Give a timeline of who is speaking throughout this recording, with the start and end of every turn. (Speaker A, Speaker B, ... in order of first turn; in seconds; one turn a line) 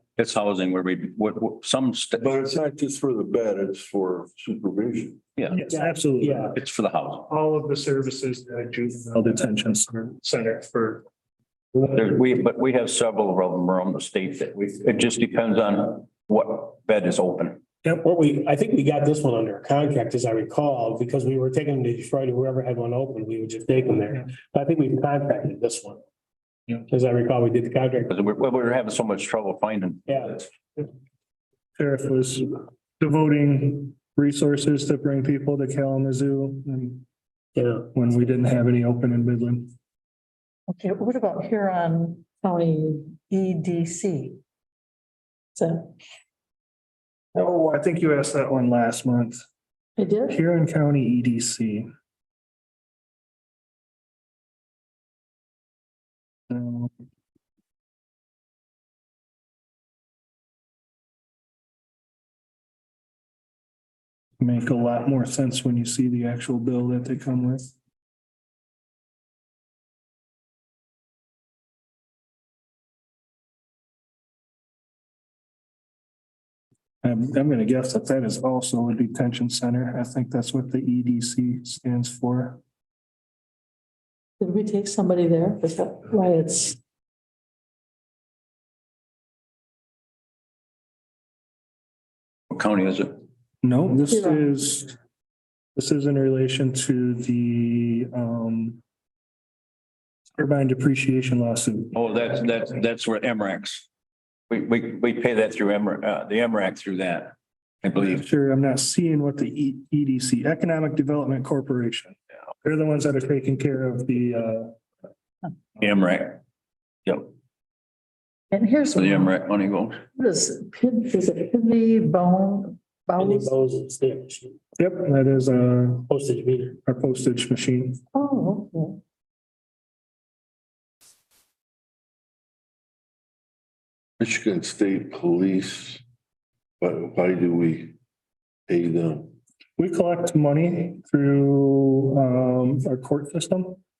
Speaker A: 0.1-2.4
Speaker B: 2.2-5.2
Speaker C: 5.5-6.5
Speaker D: 5.5-6.5
Speaker A: 6.5-7.3
Speaker C: 7.3-11.0
Speaker A: 11.8-17.6
Speaker D: 17.9-26.0
Speaker D: 26.9-28.1
Speaker A: 28.1-30.2
Speaker D: 30.1-30.4
Speaker C: 31.8-37.0
Speaker D: 37.5-37.9
Speaker C: 37.9-39.7
Speaker E: 40.7-44.4
Speaker E: 45.5-46.0
Speaker C: 47.3-49.4
Speaker E: 50.0-50.4
Speaker C: 50.3-51.9
Speaker C: 56.5-56.9
Speaker C: 64.4-67.6
Speaker C: 77.0-82.6
Speaker E: 84.4-86.8
Speaker A: 92.5-93.2
Speaker C: 93.6-94.9
Speaker E: 94.1-94.5
Speaker C: 95.7-98.8
Speaker C: 100.3-102.0
Speaker A: 101.9-103.8
Speaker A: 104.5-108.2
Speaker C: 107.9-114.7
Speaker A: 115.8-116.4
Speaker A: 117.0-117.3
Speaker E: 118.5-119.3
Speaker A: 118.9-120.0
Speaker E: 120.1-123.5
Speaker D: 123.2-124.6
Speaker C: 124.8-126.1
Speaker D: 126.1-126.8
Speaker C: 126.8-128.0
Speaker E: 128.1-129.0
Speaker B: 134.2-136.0
Speaker B: 136.8-138.0
Speaker B: 138.7-139.3
Speaker C: 139.8-143.8